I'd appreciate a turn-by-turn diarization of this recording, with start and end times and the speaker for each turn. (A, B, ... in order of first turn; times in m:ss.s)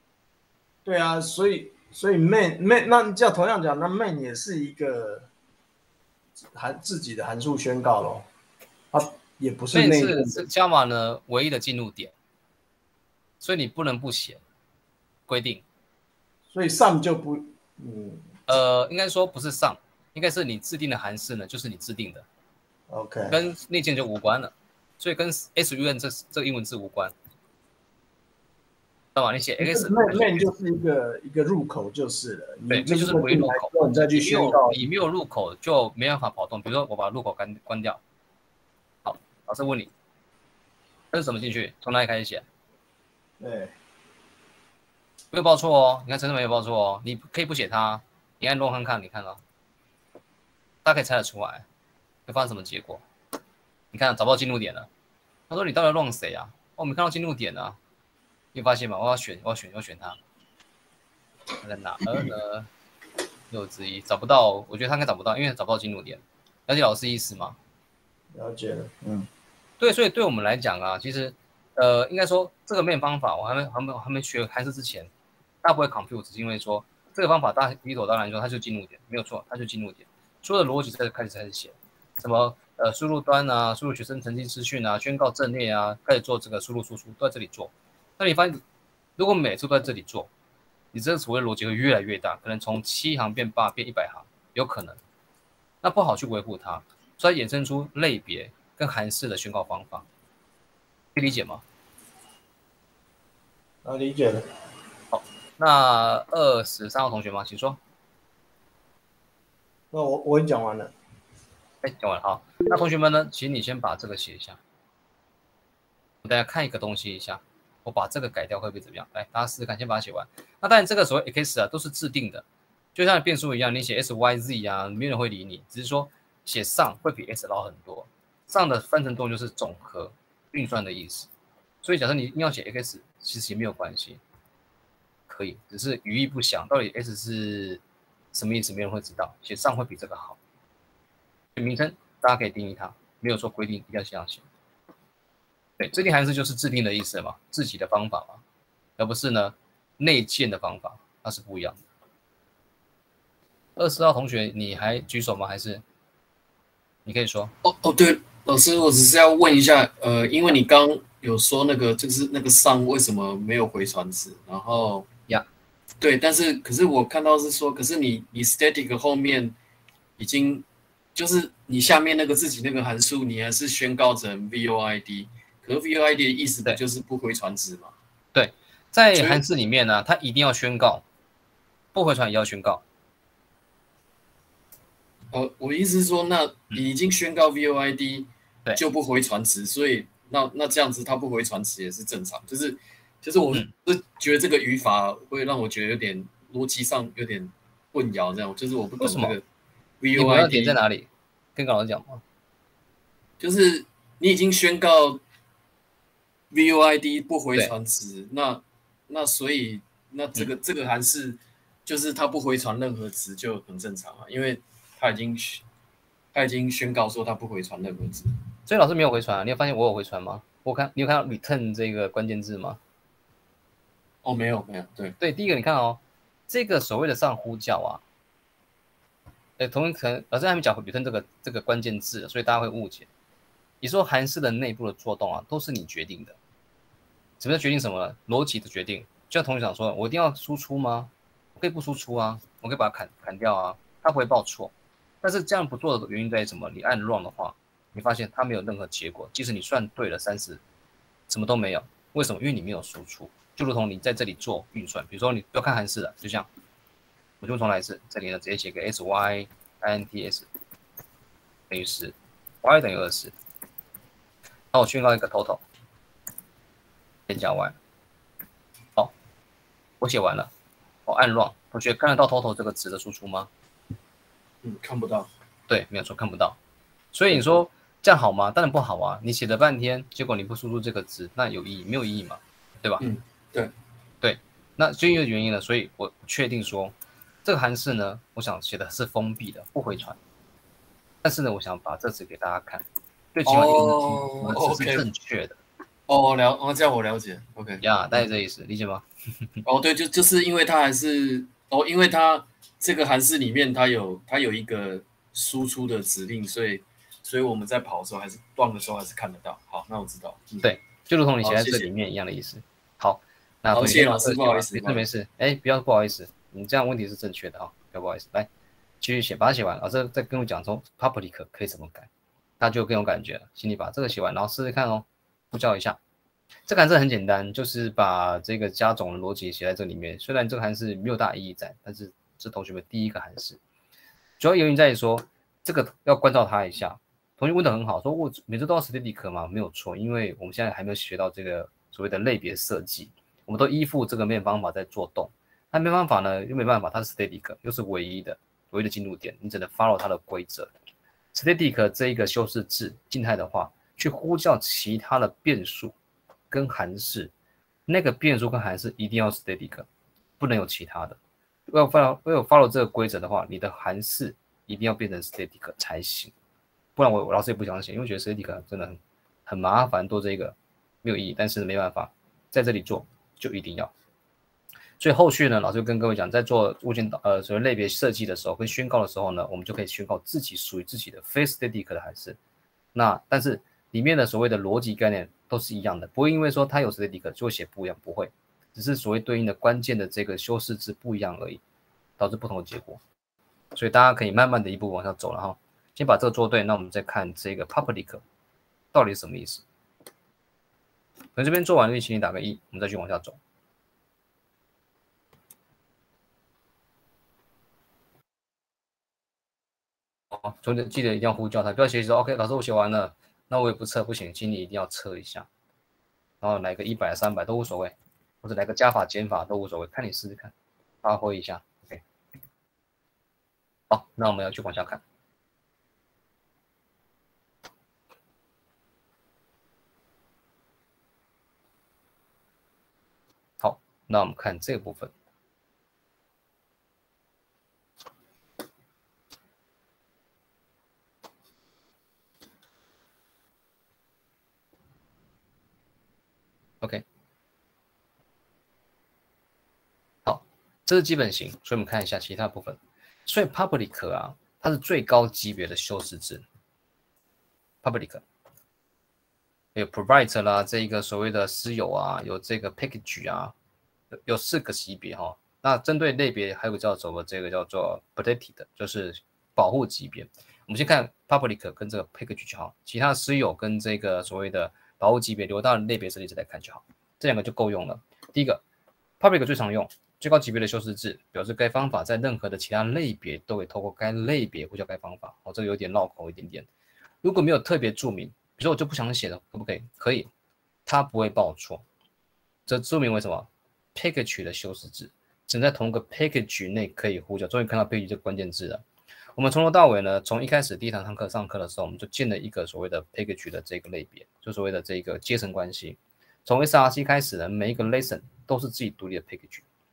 0:00.8-0:05.3 A
0:06.6-0:08.3 A
0:08.9-0:10.4 A
0:09.7-0:12.1 B
0:13.4-0:14.4 B
0:15.3-0:15.6 B
0:16.5-0:18.2 A
0:18.5-0:22.3 B
0:22.9-0:23.4 A
0:23.3-0:27.1 B
0:29.2-0:30.5 B
0:29.6-0:34.8 A
0:32.7-0:38.0 B
0:39.0-0:39.9 B
0:41.1-0:42.4 B
0:43.4-0:43.7 A
0:45.3-0:49.4 B
0:50.8-0:51.7 B
0:52.3-0:53.0 B
0:53.9-0:54.9 B
0:55.5-0:57.8 B
0:58.5-1:00.2 B
1:01.6-1:02.7 B
1:03.5-1:07.6 B
1:08.3-1:09.3 A
1:09.8-1:15.1 B
1:15.6-1:28.6 B
1:29.2-1:30.3 B
1:30.9-1:35.0 B
1:35.8-1:40.1 B
1:41.2-1:41.6 B
1:43.8-1:44.5 A
1:45.1-1:47.8 B
1:49.9-1:50.9 A
1:51.8-1:54.6 B
1:56.2-2:11.3 B
2:11.8-2:14.2 B
2:15.3-2:17.8 B
2:18.3-2:20.4 B
2:21.6-2:24.4 B
2:25.8-2:28.4 B
2:29.0-2:31.8 B
2:33.8-2:35.8 B
2:37.1-2:37.5 B
2:37.6-2:45.1 C
2:46.0-2:49.5 C
2:50.2-2:58.0 C
2:58.3-3:01.0 B
2:59.2-2:59.4 C
3:01.9-3:02.8 B
3:05.3-3:19.4 C
3:19.0-3:19.4 B
3:20.0-3:20.8 C
3:20.2-3:22.2 B
3:23.4-3:25.2 C
3:26.5-3:35.6 C
3:36.3-3:38.3 C
3:38.7-3:42.8 B
3:44.2-3:45.2 C
3:45.2-3:48.0 B
3:49.6-3:53.1 B
3:53.8-3:56.4 B
3:57.4-4:10.6 B
4:11.3-4:16.5 B
4:17.4-4:20.5 B
4:21.7-4:23.3 B
4:24.7-4:25.6 B
4:27.3-4:27.8 B
4:30.0-4:30.5 B
4:31.1-4:33.5 B
4:34.6-4:35.3 C
4:35.7-4:36.6 B
4:37.1-4:43.0 B
4:43.0-4:43.7 C
4:44.2-4:46.9 B
4:47.4-4:50.2 B
4:51.2-4:55.6 B
4:53.5-4:55.0 C
4:56.1-4:57.9 C
4:57.8-4:59.0 B
4:59.6-5:10.8 C
5:10.6-5:18.5 B
5:11.4-5:11.9 C
5:13.7-5:15.1 C
5:19.0-5:22.1 B
5:22.6-5:26.0 B
5:26.7-5:33.6 B
5:34.4-5:50.7 B
5:51.3-5:55.9 B
5:56.5-5:57.3 B
5:57.9-5:59.9 B
6:00.4-6:06.3 B
6:07.0-6:13.9 B
6:15.0-6:22.4 B
6:22.9-6:31.6 B
6:32.2-6:33.0 B
6:33.7-6:38.2 B
6:38.9-6:39.6 B
6:41.4-6:43.4 B
6:50.3-6:55.5 B
6:56.4-7:02.0 B
7:03.9-7:05.0 B
7:13.6-7:15.1 B
7:30.3-7:36.4 B
7:37.8-7:38.2 B
7:39.8-7:43.5 B
7:44.1-7:58.6 B
7:59.2-8:06.7 B
8:07.2-8:10.3 B
8:10.9-8:11.8 B
8:12.7-8:18.8 B
8:19.4-8:29.6 B